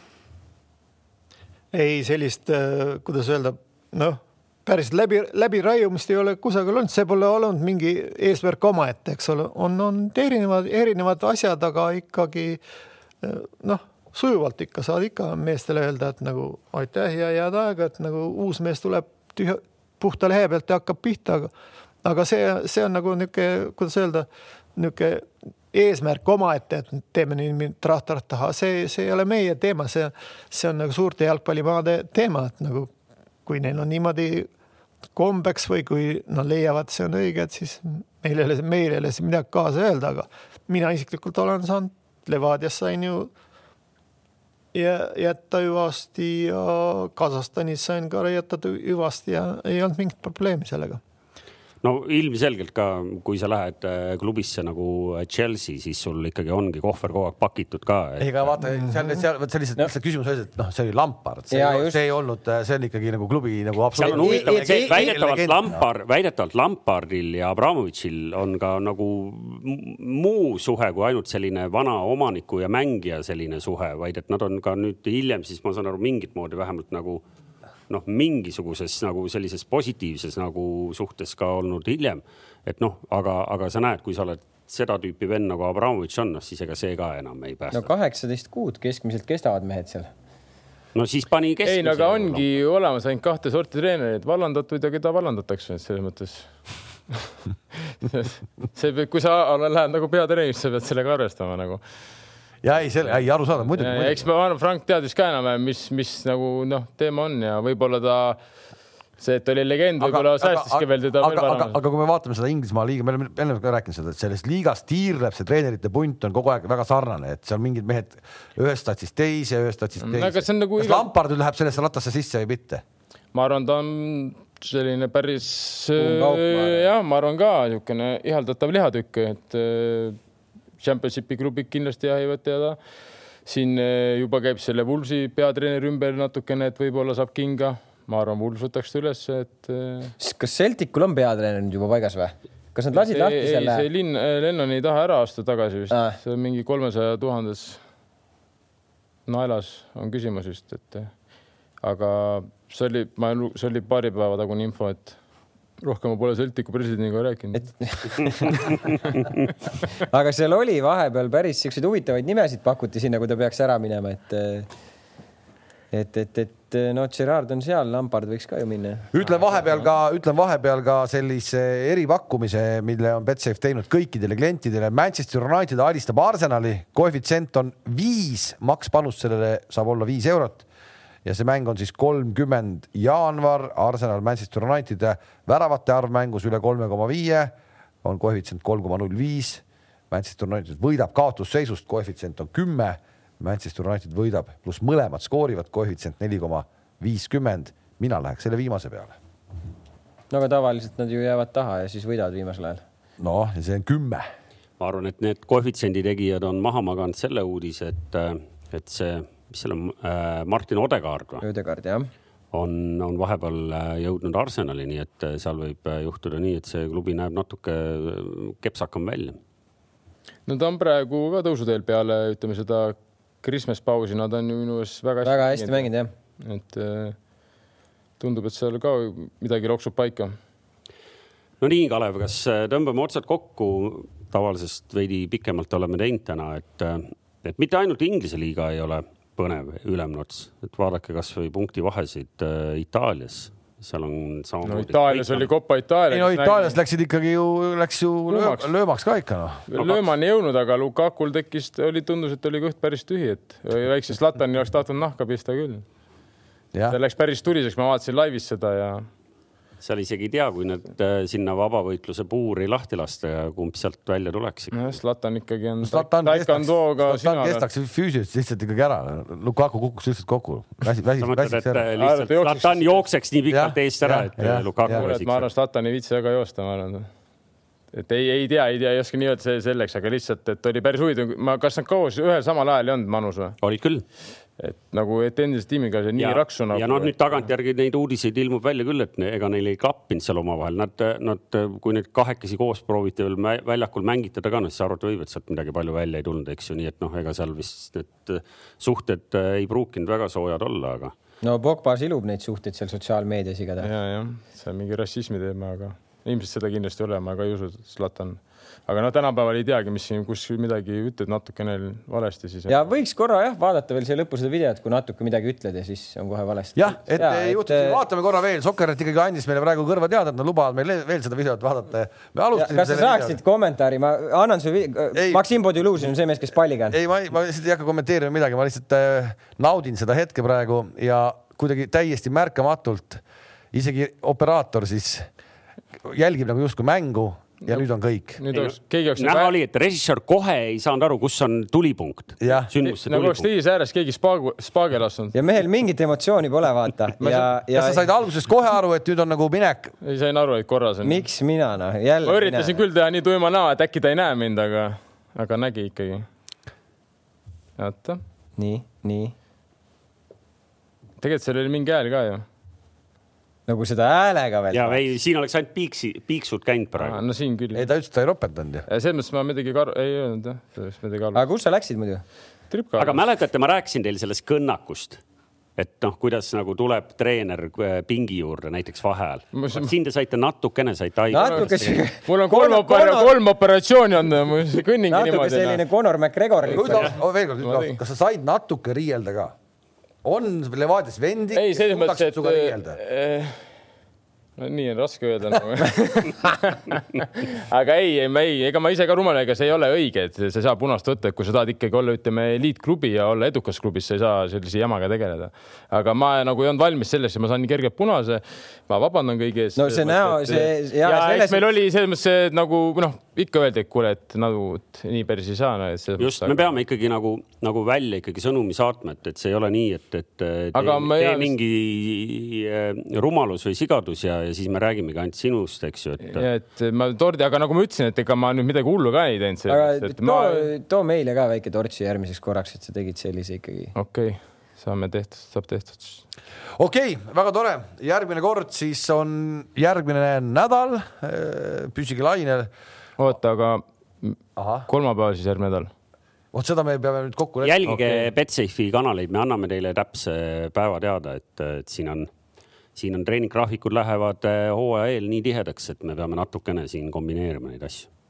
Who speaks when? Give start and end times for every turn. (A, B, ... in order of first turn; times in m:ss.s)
0:01.7-0:12.6 A
0:13.2-0:21.5 A
0:22.0-0:32.9 A
0:33.4-0:34.5 A
0:35.1-0:43.3 A
0:44.7-0:51.0 A
0:51.8-0:58.5 B
0:58.2-1:05.8 C
1:01.5-1:02.0 D
1:03.9-1:05.0 D
1:04.0-1:17.2 B
1:17.9-1:27.9 B
1:27.7-1:30.1 D
1:30.9-1:32.4 B
1:31.6-1:36.5 E
1:37.9-1:41.8 E
1:42.6-1:44.2 C
1:43.7-1:48.4 E
1:49.2-1:51.7 E
1:50.0-2:02.8 C
2:00.0-2:01.1 E
2:03.3-2:10.2 E
2:06.0-2:06.8 D
2:10.8-2:12.8 E
2:13.4-2:20.1 E
2:20.2-2:23.8 D
2:22.9-2:27.8 E
2:25.9-2:26.2 D
2:29.3-2:31.1 E
2:31.8-2:35.2 E
2:35.8-2:37.9 E
2:37.5-2:38.7 D
2:40.0-2:44.7 D
2:45.9-2:49.1 D
2:49.1-3:00.6 C
3:01.2-3:19.2 C
3:20.3-3:22.8 D
3:23.2-3:24.2 C
3:24.8-3:31.4 B
3:31.4-3:32.1 D
3:32.5-3:39.4 B
3:40.4-3:45.9 E
3:45.2-3:46.1 D
3:46.4-3:47.2 E
3:48.2-3:50.3 E
3:51.6-4:05.5 B
4:04.6-4:06.8 E
4:06.1-4:10.0 C
4:08.3-4:08.7 E
4:09.7-4:15.8 E
4:16.9-4:19.0 E
4:19.8-4:24.8 B
4:24.7-4:27.6 E
4:25.8-4:31.8 C
4:31.2-4:35.5 B
4:32.0-4:33.0 E
4:33.5-4:35.1 C
4:34.9-4:37.1 E
4:37.9-4:43.6 E
4:43.6-4:44.0 B
4:44.6-4:47.4 E
4:46.2-5:01.1 B
5:01.4-5:03.9 D
5:03.8-5:12.8 E
5:12.7-5:18.0 D
5:16.8-5:23.4 C
5:22.5-5:27.0 D
5:25.1-5:25.4 C
5:26.9-5:33.2 C
5:33.7-5:35.3 C
5:36.0-5:38.4 C
5:38.4-5:39.5 E
5:38.5-5:43.5 B
5:42.4-5:42.7 C
5:42.8-5:45.4 E
5:45.3-5:48.0 D
5:47.2-5:49.9 C
5:50.0-5:51.2 E
5:51.0-5:52.8 D
5:52.2-5:56.2 E
5:57.8-5:58.2 E
5:58.6-5:59.3 D
6:01.2-6:02.4 E
6:03.7-6:05.0 D
6:04.7-6:07.2 B
6:07.0-6:07.9 E
6:07.7-6:08.8 C
6:08.9-6:11.4 E
6:11.3-6:12.2 D
6:12.7-6:13.2 E
6:13.0-6:15.2 B
6:15.8-6:22.0 B
6:19.5-6:19.9 E
6:21.3-6:23.4 D
6:21.3-6:25.8 E
6:25.1-6:27.2 D
6:26.6-6:29.5 C
6:27.6-6:28.0 E
6:30.2-6:33.0 C
6:31.5-6:33.7 E
6:34.6-6:56.7 E
6:49.8-6:51.7 D
6:56.2-7:06.5 B
7:00.7-7:01.5 E
7:06.2-7:10.7 E
7:09.7-7:13.9 D
7:13.9-7:16.2 E
7:16.8-7:22.7 C
7:23.2-7:25.9 E
7:24.6-7:24.9 C
7:26.5-7:27.9 C
7:27.6-7:32.3 B
7:27.9-7:28.3 E
7:33.0-7:38.1 B